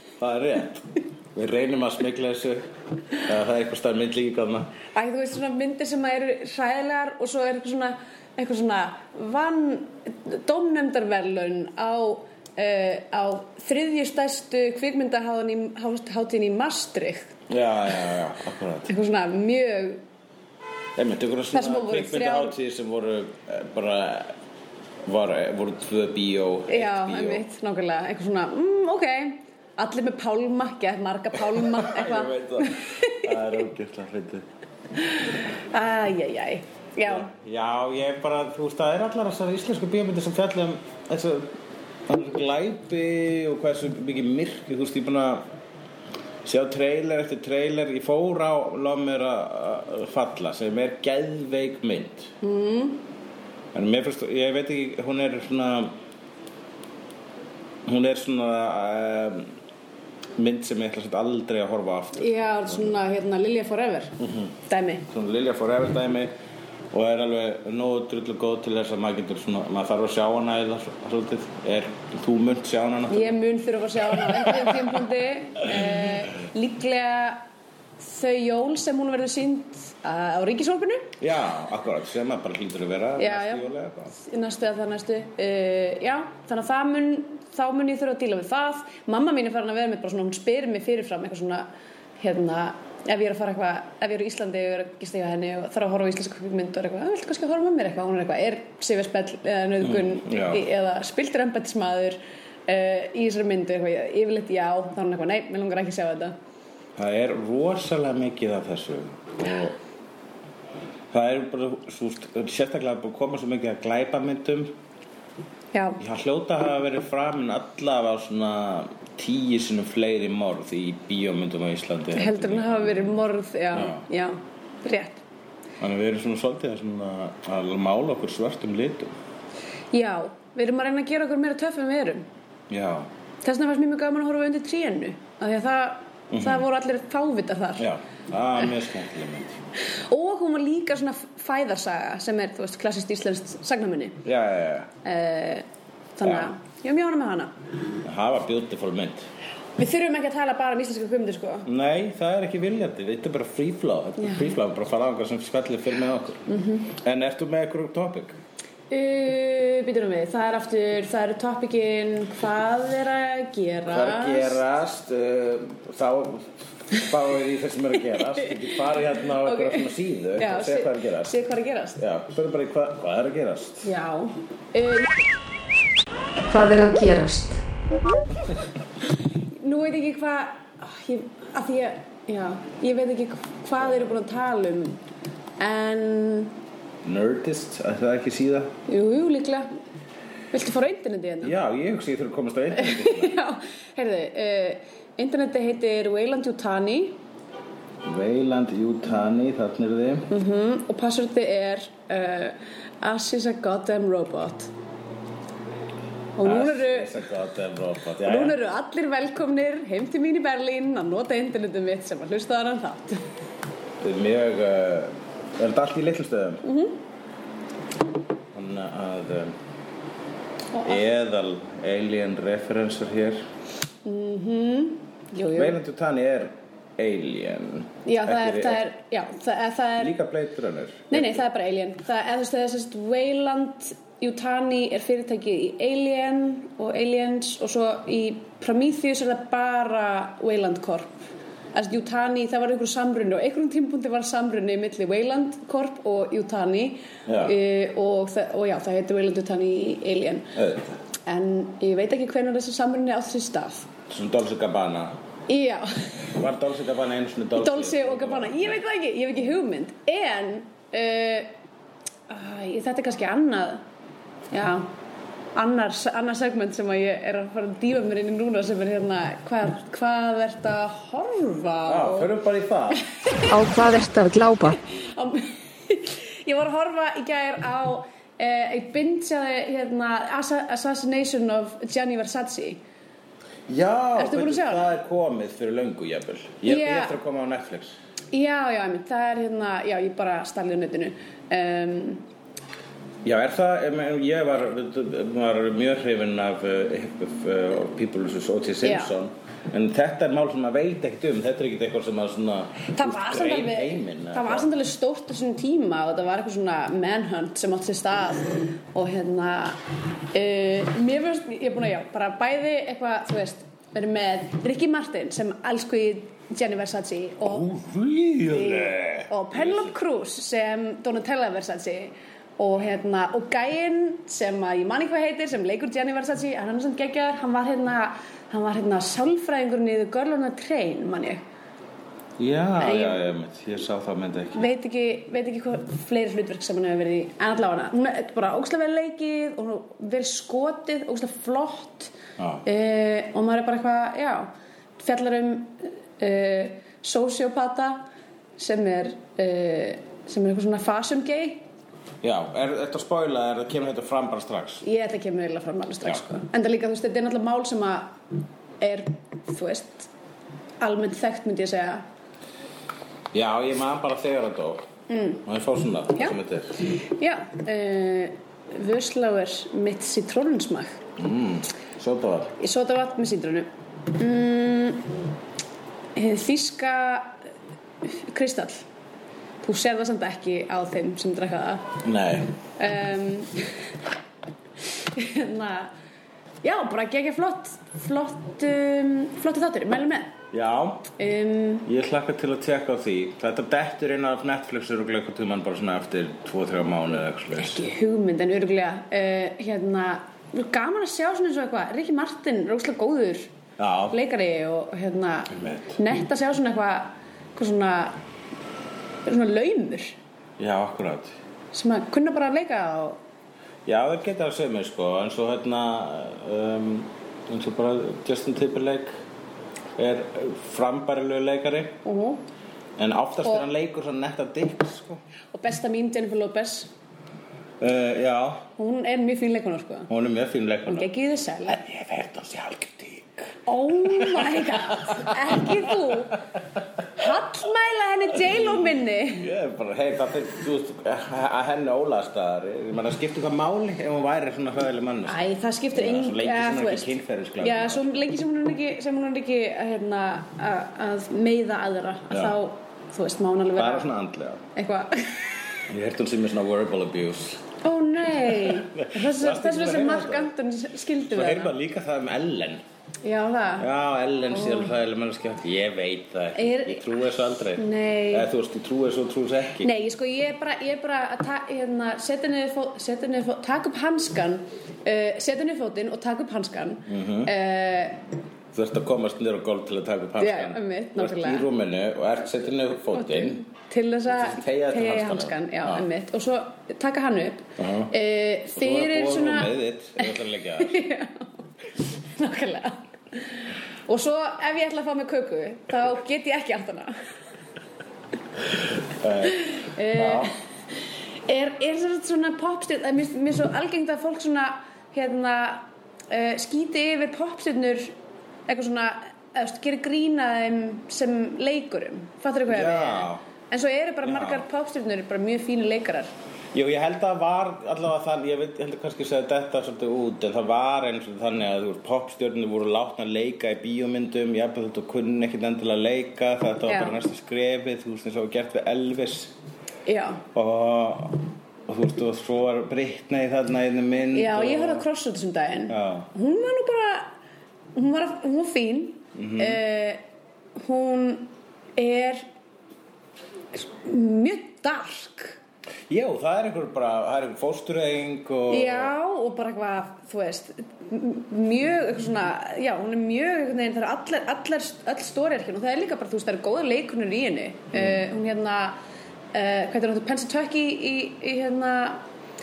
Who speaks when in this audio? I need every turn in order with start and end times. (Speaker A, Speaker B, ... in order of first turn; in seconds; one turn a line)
Speaker A: 0.2-2.7
Speaker A: 3.2-4.7
Speaker B: 4.9-17.3
Speaker A: 17.5-18.9
Speaker B: 18.9-20.0
Speaker A: 20.9-24.3
Speaker B: 21.5-22.5
Speaker A: 25.1-27.4
Speaker B: 26.7-33.4
Speaker A: 31.5-34.5
Speaker B: 35.1-37.3
Speaker A: 37.0-41.5
Speaker A: 42.1-45.4
Speaker A: 46.4-52.3
Speaker B: 52.4-53.0
Speaker A: 53.7-55.9
Speaker A: 57.9-59.5
Speaker A: 60.4-63.0
Speaker B: 62.2-65.0
Speaker A: 64.2-64.5
Speaker A: 65.1-66.3
Speaker A: 66.9-73.4
Speaker B: 73.1-77.4
Speaker A: 74.1-74.8
Speaker B: 78.0-81.1
Speaker A: 81.2-84.1
Speaker B: 83.2-91.7
Speaker B: 92.2-106.3
Speaker A: 99.8-100.6
Speaker A: 107.0-109.8
Speaker A: 111.1-114.7
Speaker B: 115.7-116.0
Speaker A: 116.0-123.2
Speaker B: 122.1-125.2
Speaker A: 123.7-124.0
Speaker A: 125.8-129.1
Speaker B: 129.9-132.2
Speaker A: 132.7-133.1
Speaker B: 133.4-137.8
Speaker A: 136.3-136.6
Speaker A: 137.8-139.6
Speaker B: 140.1-144.2
Speaker A: 144.2-144.9
Speaker B: 145.0-145.7
Speaker B: 146.2-147.5
Speaker A: 146.2-146.5
Speaker A: 148.0-149.3
Speaker B: 149.8-151.7
Speaker A: 151.7-158.3
Speaker B: 154.2-154.4
Speaker B: 156.5-156.9
Speaker B: 158.9-164.6
Speaker A: 163.8-171.3
Speaker B: 168.2-168.6
Speaker B: 169.4-172.0
Speaker A: 172.0-173.8
Speaker B: 173.8-175.1
Speaker C: 176.5-177.6
Speaker B: 179.6-185.0
Speaker A: 183.8-184.1
Speaker B: 185.6-186.5
Speaker A: 187.0-188.7
Speaker B: 188.9-189.7
Speaker B: 190.5-191.5
Speaker A: 191.4-193.3
Speaker B: 192.7-197.2
Speaker A: 198.0-200.3
Speaker B: 200.3-204.7
Speaker B: 206.3-207.2
Speaker A: 206.4-208.6
Speaker B: 208.2-213.2
Speaker A: 214.0-216.6
Speaker B: 216.6-217.0
Speaker A: 218.5-219.5
Speaker B: 220.7-221.0
Speaker A: 220.8-223.4
Speaker B: 224.0-225.8
Speaker A: 225.5-228.8
Speaker B: 228.1-230.2
Speaker A: 230.0-231.4
Speaker B: 231.1-241.2
Speaker B: 241.7-250.5
Speaker A: 247.2-247.5
Speaker A: 250.5-251.0
Speaker B: 251.2-253.9
Speaker A: 254.1-255.2
Speaker B: 255.5-256.2
Speaker A: 256.3-258.8
Speaker B: 257.6-261.5
Speaker B: 262.3-263.8
Speaker B: 264.5-264.9
Speaker B: 265.5-272.3
Speaker A: 271.9-273.0
Speaker C: 273.5-274.8
Speaker B: 274.9-282.8
Speaker A: 283.7-287.9
Speaker B: 284.1-284.9
Speaker B: 286.6-287.2
Speaker B: 288.3-292.2
Speaker A: 293.2-304.7
Speaker B: 298.8-299.1
Speaker B: 302.9-309.8
Speaker B: 310.3-317.7
Speaker A: 317.4-319.9
Speaker B: 318.5-331.4
Speaker A: 332.4-334.6
Speaker B: 332.8-333.2
Speaker B: 334.5-342.1
Speaker A: 342.4-342.6
Speaker B: 342.6-348.1
Speaker B: 348.6-351.6
Speaker A: 352.2-354.8
Speaker B: 354.8-358.2
Speaker B: 358.8-360.1
Speaker B: 360.8-362.0
Speaker A: 363.3-364.9
Speaker B: 365.1-365.4
Speaker A: 365.4-366.8
Speaker B: 366.9-371.0
Speaker A: 371.2-372.5
Speaker B: 372.6-375.1
Speaker B: 376.1-377.4
Speaker B: 378.0-378.9
Speaker B: 379.6-382.0
Speaker A: 382.0-382.5
Speaker B: 382.8-383.7
Speaker B: 385.0-385.9
Speaker B: 386.6-390.3
Speaker A: 390.5-391.1
Speaker B: 391.2-391.9
Speaker A: 391.8-397.8
Speaker B: 397.5-403.5
Speaker A: 403.8-404.1
Speaker B: 404.1-408.2
Speaker A: 405.5-406.0
Speaker B: 409.2-410.2
Speaker A: 410.6-411.3
Speaker B: 411.7-413.2
Speaker A: 413.9-419.1
Speaker A: 420.0-422.0
Speaker B: 422.0-422.4
Speaker A: 423.0-425.2
Speaker B: 425.5-426.9
Speaker A: 427.8-428.6
Speaker B: 428.8-430.1
Speaker A: 430.1-431.1
Speaker B: 430.9-431.8
Speaker A: 431.6-436.1
Speaker B: 433.6-436.4
Speaker B: 437.1-439.5
Speaker A: 438.3-445.4
Speaker B: 445.3-454.1
Speaker A: 445.9-448.1
Speaker A: 452.3-452.6
Speaker A: 453.8-454.6
Speaker B: 454.7-455.6
Speaker A: 455.9-457.6
Speaker B: 457.8-461.7
Speaker A: 458.5-460.5
Speaker A: 461.3-462.8
Speaker B: 463.2-463.9
Speaker A: 463.8-469.9
Speaker B: 464.5-464.9
Speaker B: 466.5-467.1
Speaker B: 467.8-468.5
Speaker B: 469.8-478.2
Speaker A: 477.1-477.5
Speaker A: 478.7-483.6
Speaker B: 480.4-481.7
Speaker B: 483.1-491.5
Speaker A: 484.3-486.1
Speaker A: 487.8-488.1
Speaker A: 488.8-491.0
Speaker B: 492.2-497.1
Speaker A: 499.2-499.6
Speaker B: 499.4-500.5
Speaker A: 500.1-500.5
Speaker B: 501.4-508.1
Speaker B: 508.7-516.3
Speaker A: 512.7-513.4
Speaker A: 514.2-514.6
Speaker A: 516.7-529.5
Speaker B: 526.9-527.2
Speaker B: 530.0-530.4
Speaker A: 530.5-535.0
Speaker B: 534.3-537.3
Speaker A: 535.9-536.3
Speaker B: 537.9-540.2
Speaker A: 539.4-539.8
Speaker B: 540.8-542.4
Speaker B: 543.7-545.6
Speaker A: 546.1-549.1
Speaker B: 548.7-559.0
Speaker B: 559.5-562.2